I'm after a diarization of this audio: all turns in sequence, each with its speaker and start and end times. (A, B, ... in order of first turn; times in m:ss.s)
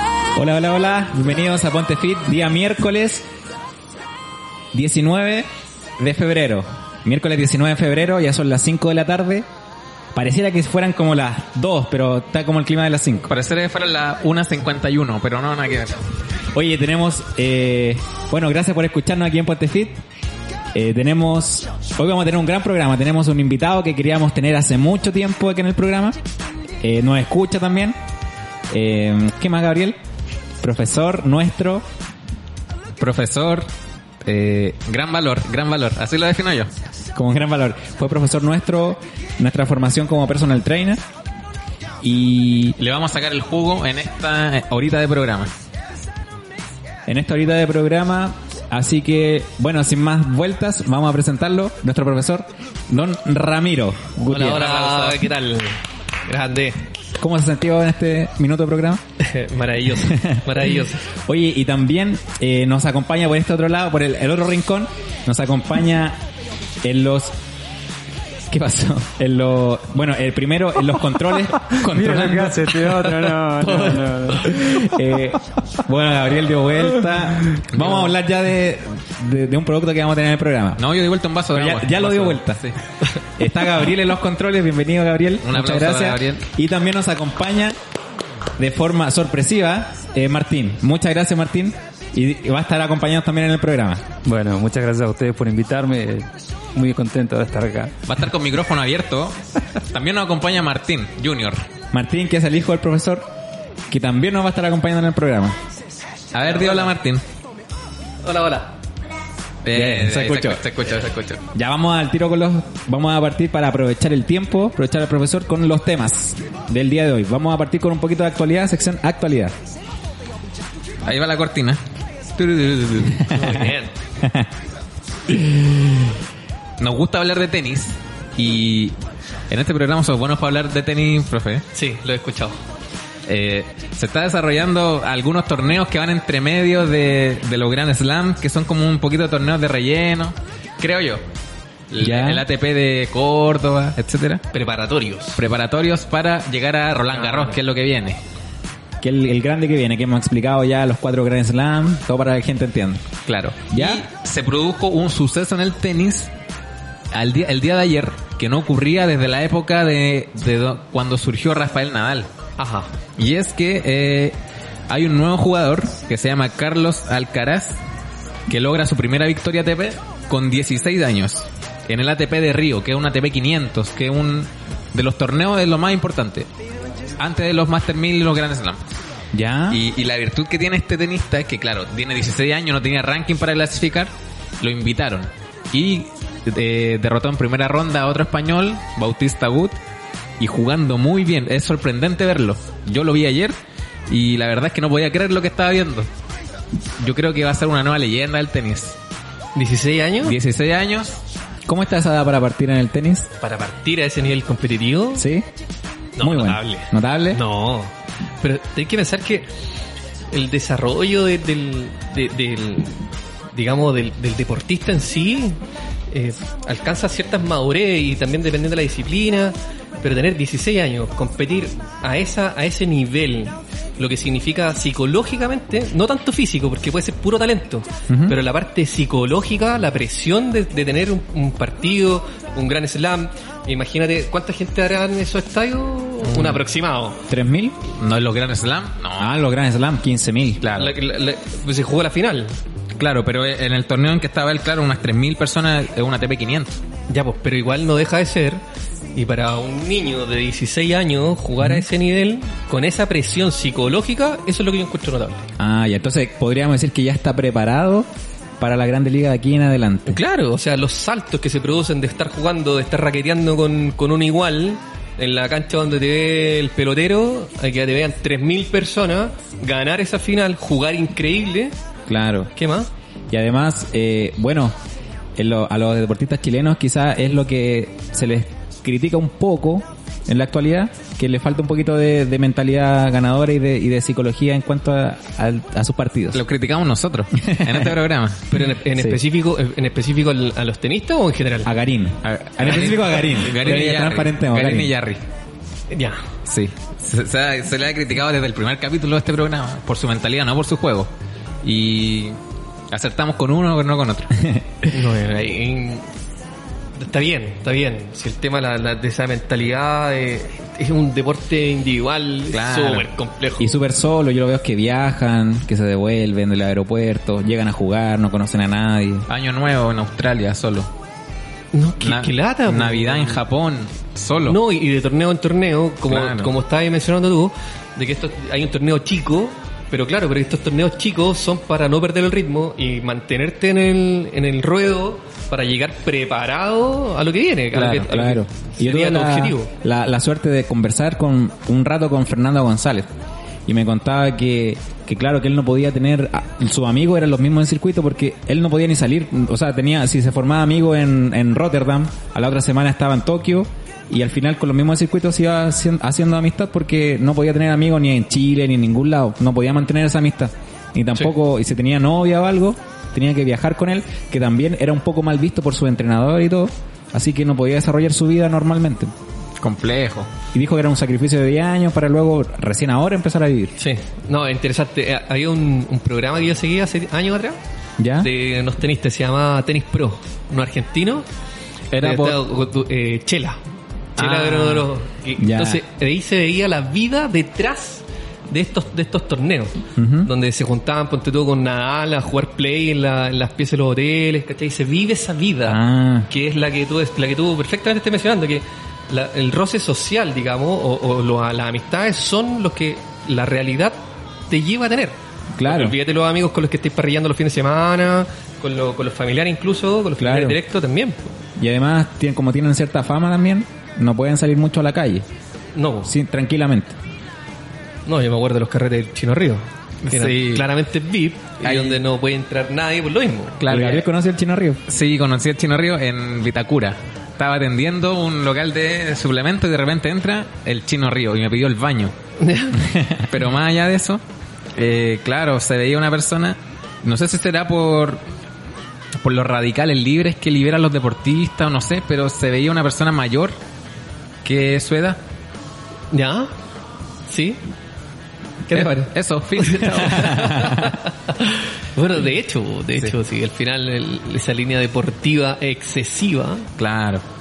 0:00.4-0:03.2 A
0:04.7-0:09.5 A
0:10.1-0:13.3 A
0:13.3-0:16.0 B
0:16.5-0:20.0 A
0:20.7-0:26.2 A
0:26.8-0:28.0 A
0:28.7-0:30.0 A
0:30.6-0:31.8 A
0:33.0-0:33.7 B
0:34.2-0:36.7 B
0:37.2-0:41.0 A
0:42.0-0:42.8 A
0:42.8-0:45.5 B
0:47.1-0:54.7 A
0:54.3-0:56.9 C
0:54.3-0:55.2 B
0:57.2-0:59.0 A
0:59.2-1:01.0 C
1:00.0-1:00.4 A
1:01.2-1:06.2 A
1:06.8-1:07.3 A
1:08.5-1:20.8 A
1:11.7-1:14.7 D
1:17.7-1:18.1 B
1:20.8-1:22.8 B
1:21.5-1:22.6 A
1:23.4-1:27.8 A
1:25.4-1:26.4 B
1:28.6-1:34.0 A
1:34.2-1:37.9 D
1:38.1-1:41.7 B
1:41.9-1:43.2 A
1:43.9-1:45.6 A
1:46.3-1:47.2 B
1:46.5-1:46.9 C
1:48.2-1:48.8 C
1:49.6-1:51.4 B
1:49.7-1:50.6 A
1:51.5-1:59.6 A
2:01.0-2:01.8 B
2:02.4-2:03.3 B
2:03.3-2:03.9 C
2:04.2-2:04.5 A
2:06.8-2:08.9 B
2:09.5-2:11.6 B
2:11.7-2:12.6 C
2:13.3-2:21.2 B
2:21.9-2:24.4 B
2:22.0-2:22.4 A
2:24.5-2:25.4 C
2:25.4-2:28.2 B
2:27.2-2:27.6 C
2:29.0-2:33.1 A
2:33.3-2:36.3 B
2:33.7-2:34.0 A
2:37.1-2:42.3 B
2:42.6-2:42.9 C
2:43.2-2:44.4 B
2:44.9-2:47.8 B
2:48.5-2:56.5 B
2:57.2-2:58.8 B
2:59.3-2:59.8 A
2:59.7-3:09.8 B
3:10.4-3:13.6 B
3:14.1-3:16.1 B
3:17.0-3:19.0 B
3:19.6-3:20.4 C
3:20.2-3:21.2 B
3:21.7-3:23.3 A
3:23.4-3:25.3 C
3:25.2-3:25.5 A
3:26.2-3:29.5 C
3:26.2-3:27.4 A
3:30.3-3:33.0 C
3:33.5-3:57.2 C
3:48.1-3:48.4 A
3:56.3-3:56.6 B
3:57.3-3:57.8 A
3:58.0-3:59.3 B
3:59.2-4:00.7 A
4:00.6-4:01.0 B
4:00.7-4:02.6 C
4:03.0-4:06.8 B
4:07.1-4:08.6 C
4:09.2-4:15.5 C
4:15.6-4:18.1 A
4:18.6-4:20.2 A
4:20.1-4:31.8 C
4:32.1-4:32.5 A
4:32.6-4:32.9 C
4:33.3-4:34.8 A
4:35.4-4:46.4 A
4:46.3-4:48.6 B
4:47.4-4:48.0 A
4:48.5-4:51.7 C
4:51.6-4:54.9 A
4:52.2-4:55.2 B
4:52.6-4:53.1 C
4:55.9-4:56.2 C
4:56.4-5:01.1 B
5:01.6-5:02.4 B
5:02.9-5:04.3 B
5:04.9-5:06.0 C
5:07.0-5:13.8 C
5:12.5-5:13.0 B
5:13.6-5:19.3 A
5:19.3-5:20.9 B
5:21.7-5:23.4 C
5:22.0-5:24.6 B
5:24.5-5:39.7 C
5:26.1-5:26.5 B
5:37.7-5:43.1 A
5:43.7-6:09.1 A
6:09.6-6:10.3 B
6:10.5-6:13.7 A
6:13.8-6:17.6 C
6:18.0-6:18.3 A
6:18.2-6:21.3 C
6:21.9-6:22.4 B
6:22.0-6:23.6 C
6:24.2-6:44.0 C
6:24.2-6:24.9 B
6:25.4-6:25.8 A
6:30.0-6:30.3 A
6:35.7-6:36.3 A
6:44.5-6:51.3 C
6:45.6-6:46.0 A
6:50.2-6:50.6 A
6:51.6-6:55.2 A
6:55.8-6:56.1 C
6:56.0-6:57.0 A
6:58.1-7:03.7 C
7:00.0-7:00.7 B
7:01.6-7:02.0 B
7:03.6-7:04.1 B
7:03.7-7:04.8 A
7:04.9-7:12.2 B
7:12.4-7:12.8 C
7:13.1-7:14.2 B
7:14.8-7:18.2 B
7:19.2-7:23.6 B
7:24.4-7:25.2 B
7:26.1-7:26.5 C
7:27.3-7:27.6 C
7:28.7-7:36.7 C
7:28.7-7:30.9 B
7:36.8-7:37.2 B